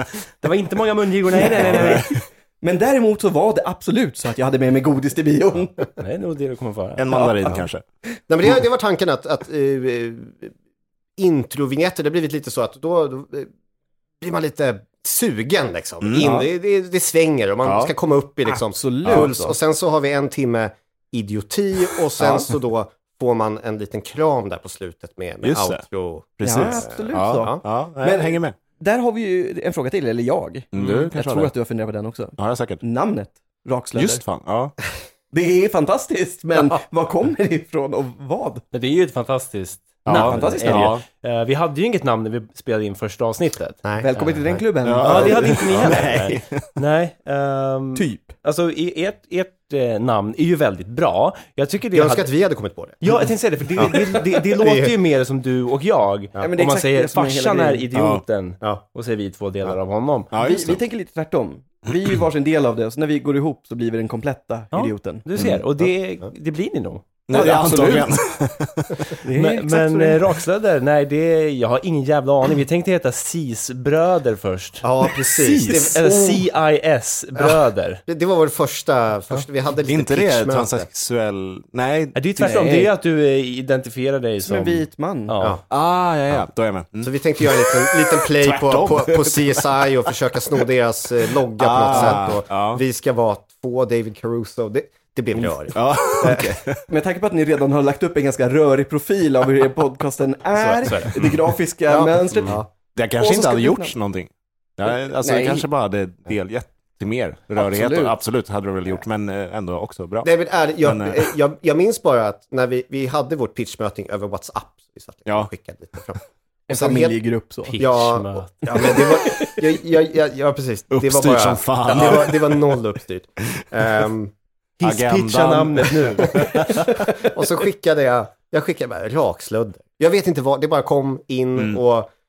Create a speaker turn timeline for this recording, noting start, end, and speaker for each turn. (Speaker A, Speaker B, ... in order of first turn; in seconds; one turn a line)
Speaker A: 0.4-2.1
Speaker B: 1.4-5.7
Speaker C: 1.7-2.2
Speaker A: 6.0-7.2
Speaker C: 7.0-7.8
Speaker B: 7.1-7.6
Speaker D: 8.3-10.5
Speaker D: 11.2-13.5
Speaker D: 14.2-27.6
Speaker C: 16.0-16.3
Speaker B: 16.2-16.5
Speaker C: 17.6-17.9
Speaker B: 18.4-19.6
Speaker C: 19.0-19.3
Speaker B: 22.2-22.4
Speaker C: 25.4-25.8
Speaker C: 26.4-28.6
Speaker B: 26.4-34.2
Speaker C: 30.7-31.5
Speaker C: 32.4-32.8
Speaker C: 33.9-34.7
Speaker B: 35.3-38.6
Speaker A: 38.7-52.2
Speaker C: 40.0-41.0
Speaker B: 40.1-41.0
Speaker D: 43.8-44.6
Speaker B: 44.0-45.9
Speaker C: 44.8-46.6
Speaker D: 45.7-46.1
Speaker B: 47.9-48.3
Speaker D: 51.9-53.2
Speaker A: 53.0-60.3
Speaker D: 53.8-55.0
Speaker B: 56.4-57.9
Speaker C: 57.9-58.2
Speaker C: 60.3-60.8
Speaker B: 60.4-65.2
Speaker A: 64.7-67.0
Speaker C: 65.4-65.6
Speaker C: 67.3-69.2
Speaker B: 67.3-68.1
Speaker B: 69.2-70.2
Speaker A: 69.3-74.9
Speaker D: 74.8-76.4
Speaker C: 75.4-75.8
Speaker A: 75.5-78.0
Speaker D: 77.3-80.8
Speaker C: 79.8-82.2
Speaker A: 82.1-85.6
Speaker B: 82.4-82.9
Speaker B: 84.4-85.3
Speaker C: 85.7-89.9
Speaker D: 87.0-96.6
Speaker C: 91.6-92.8
Speaker C: 95.3-96.8
Speaker B: 96.9-102.6
Speaker A: 100.6-101.1
Speaker C: 101.1-101.5
Speaker D: 101.9-102.7
Speaker C: 102.9-110.3
Speaker B: 103.2-103.9
Speaker B: 104.8-105.7
Speaker B: 107.5-108.2
Speaker D: 110.2-117.2
Speaker C: 110.8-111.3
Speaker B: 116.7-117.8
Speaker A: 117.7-118.9
Speaker D: 117.8-124.3
Speaker B: 118.7-119.6
Speaker C: 120.9-122.8
Speaker A: 124.8-126.9
Speaker C: 124.8-127.0
Speaker D: 126.9-132.1
Speaker C: 131.6-131.8